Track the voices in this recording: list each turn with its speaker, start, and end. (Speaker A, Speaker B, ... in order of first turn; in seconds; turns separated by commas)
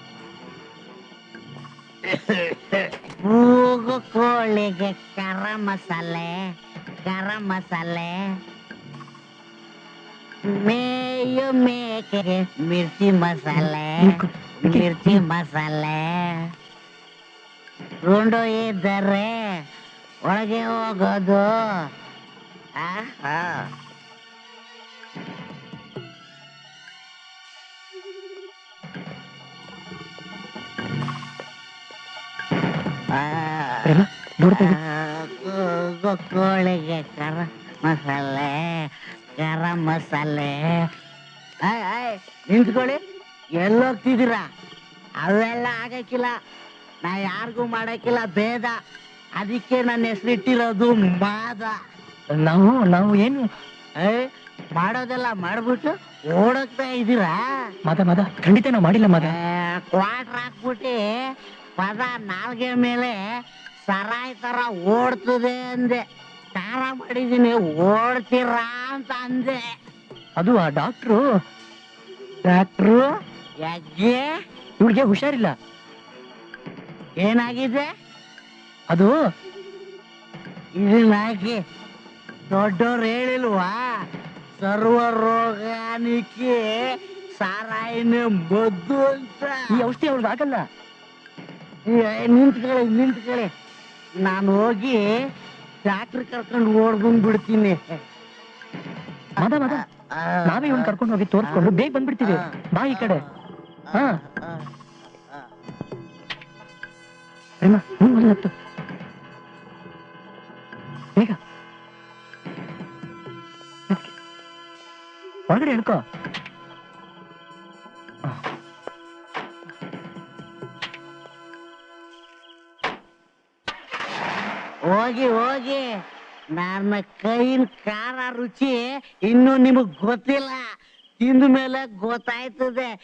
Speaker A: 2.1-6.3, Speaker A: 7.0-8.2, Speaker A: 10.5-14.1, Speaker B: 13.6-15.2, Speaker A: 14.6-16.2, Speaker A: 18.0-19.4, Speaker A: 20.2-21.5, Speaker A: 22.8-23.7, Speaker A: 33.1-34.0, Speaker B: 33.8-34.8, Speaker A: 34.6-40.9, Speaker A: 41.7-43.0, Speaker A: 43.6-44.4, Speaker A: 45.2-46.3, Speaker A: 47.0-48.8, Speaker A: 49.4-51.7, Speaker B: 52.4-53.5, Speaker A: 54.8-57.4, Speaker B: 57.9-59.4, Speaker A: 59.2-61.0, Speaker A: 61.8-63.1, Speaker A: 63.9-66.0, Speaker A: 66.5-69.6, Speaker B: 70.4-71.2, Speaker A: 72.5-73.1, Speaker A: 73.6-74.3, Speaker B: 74.8-75.5, Speaker A: 77.2-77.9, Speaker A: 80.8-81.6, Speaker A: 82.5-83.8, Speaker A: 84.6-86.7, Speaker A: 87.4-89.6, Speaker B: 89.7-90.6, Speaker A: 91.9-93.5, Speaker A: 94.2-95.1, Speaker A: 95.9-97.8, Speaker B: 99.4-99.8, Speaker A: 99.7-100.9, Speaker B: 100.5-103.2, Speaker A: 104.2-104.7, Speaker B: 107.6-108.5, Speaker B: 115.5-116.0, Speaker A: 124.9-125.8, Speaker A: 126.6-130.6, Speaker A: 131.2-132.9